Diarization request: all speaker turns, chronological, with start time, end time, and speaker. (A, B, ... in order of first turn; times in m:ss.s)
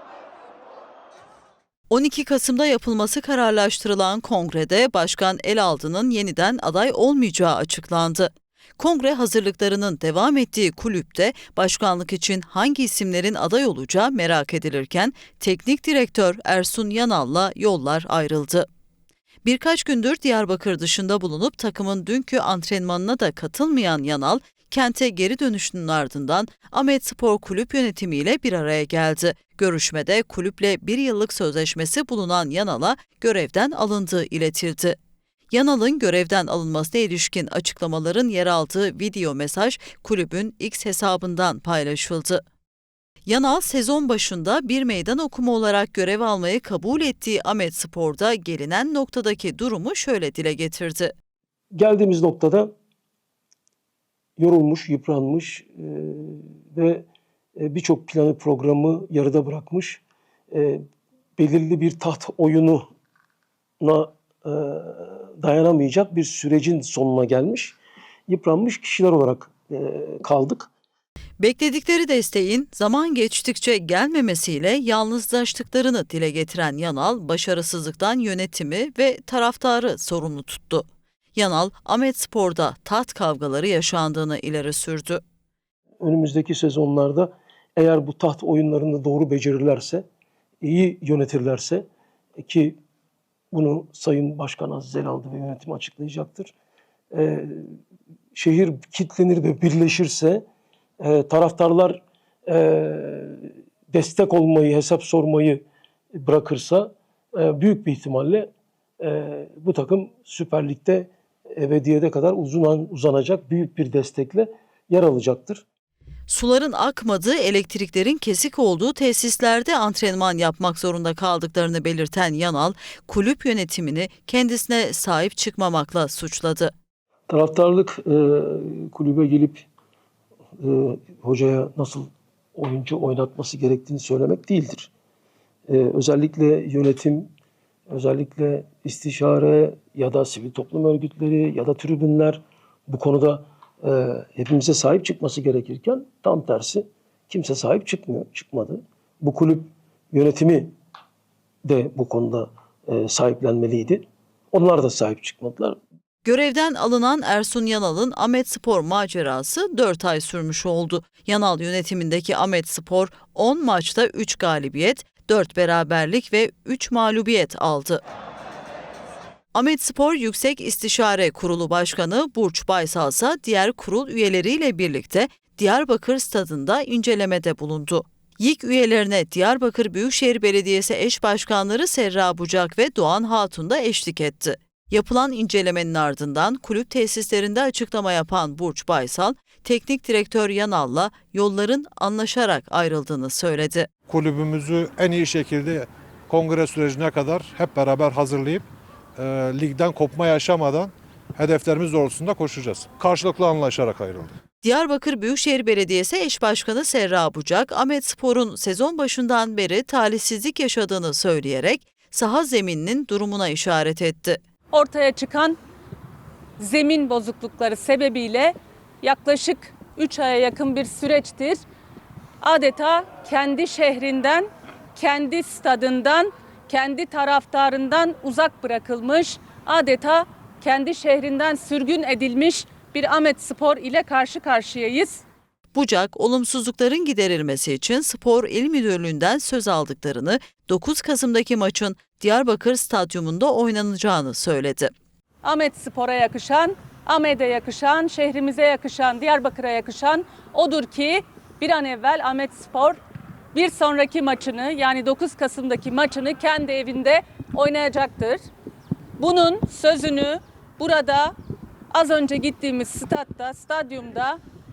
0:01.9-0:18.6 A
0:19.4-0:35.0 A
0:35.5-0:42.4 A
0:43.2-0:51.1 A
0:51.7-0:52.7 B
0:54.4-0:57.0 B
0:57.6-1:00.8 B
1:01.4-1:02.8 B
1:03.8-1:07.8 B
1:08.3-1:10.7 B
1:11.4-1:20.8 A
1:21.3-1:25.2 A
1:26.0-1:30.0 B
1:30.6-1:31.8 B
1:32.4-1:32.8 B
1:33.5-1:36.5 B
1:37.1-1:37.7 B
1:38.3-1:40.4 B
1:41.0-1:45.6 B
1:46.1-1:48.5 B
1:49.0-1:55.6 B
1:56.3-2:06.7 A
2:07.3-2:09.6 B
2:10.6-2:14.9 B
2:15.7-2:17.3 B
2:17.9-2:30.7 B
2:31.6-2:35.8 B
2:36.2-2:48.0 A
2:49.5-3:13.9 A
3:14.1-3:18.6 C
3:19.2-3:24.3 C
3:24.6-3:34.4 A
3:34.7-3:35.6 D
3:36.6-3:41.6 D
3:42.4-3:55.2 D
3:55.7-4:04.9 A
4:05.4-4:13.0 D
4:13.5-4:18.4 D
4:19.2-4:21.3 D
4:21.9-4:24.4 D